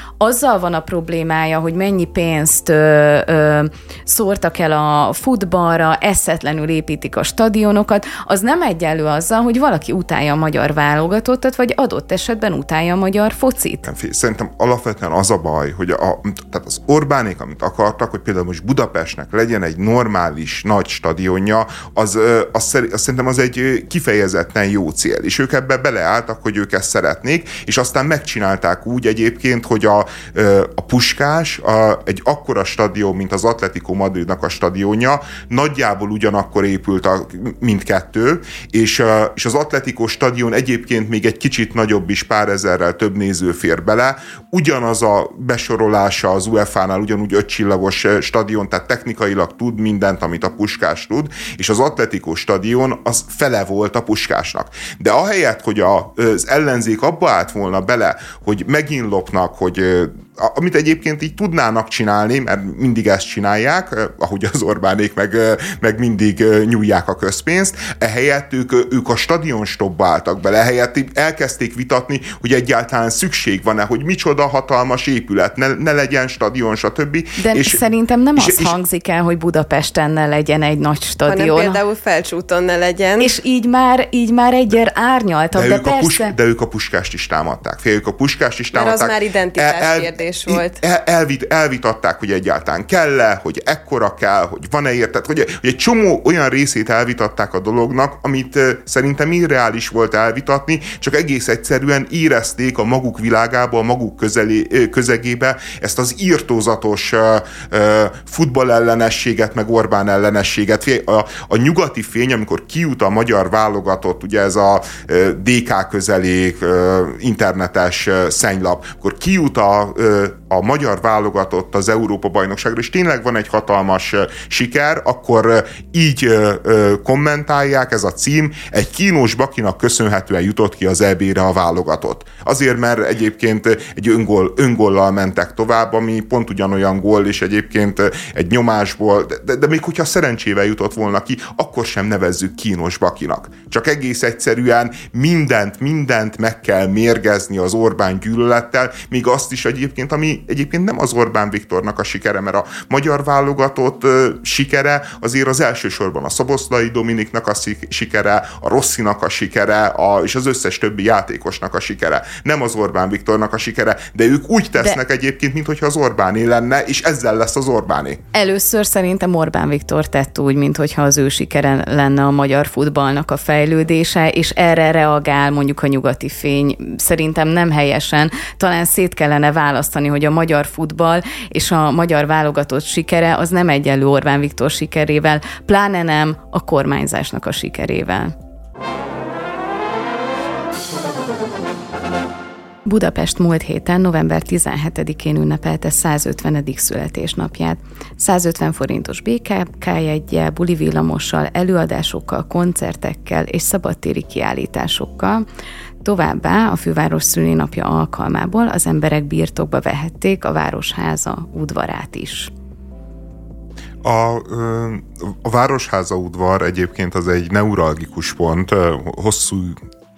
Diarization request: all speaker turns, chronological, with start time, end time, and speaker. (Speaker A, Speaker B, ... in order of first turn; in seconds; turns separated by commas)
Speaker A: 0.2-13.9, Speaker B: 13.8-77.8, Speaker A: 77.4-81.8, Speaker B: 78.4-78.7, Speaker C: 81.2-83.3, Speaker A: 83.2-86.3, Speaker B: 85.5-168.2, Speaker C: 88.7-90.8, Speaker A: 168.3-188.3, Speaker A: 192.8-205.4, Speaker A: 206.0-212.5, Speaker B: 214.0-219.8